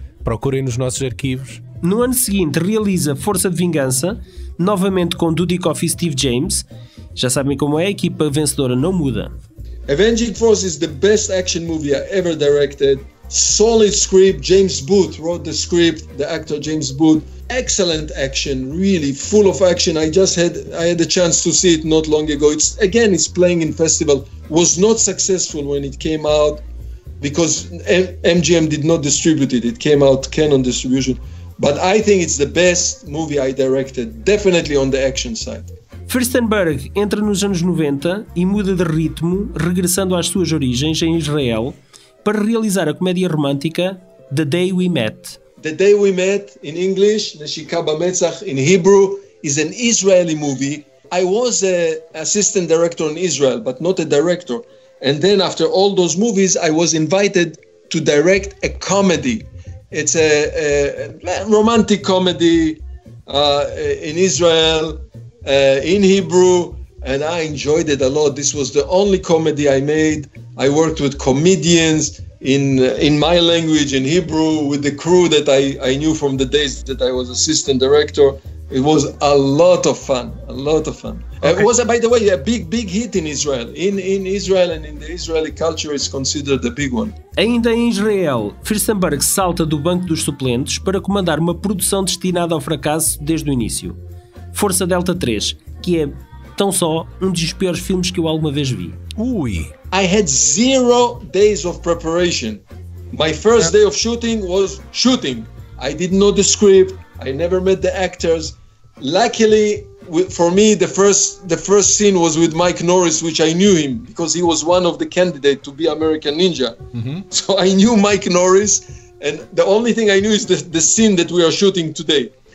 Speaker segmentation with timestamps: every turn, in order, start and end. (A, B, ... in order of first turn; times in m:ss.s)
0:00.2-0:01.6 A
0:01.8-0:09.3 B
0:09.9-0:26.6 C
0:27.2-0:35.7 C
0:36.1-0:45.4 B
0:45.6-1:27.2 C
1:27.4-1:34.0 B
1:34.5-1:39.0 B
1:39.2-1:39.7 A
1:39.9-1:56.8 C
1:56.9-1:57.2 A
1:57.3-2:02.3 C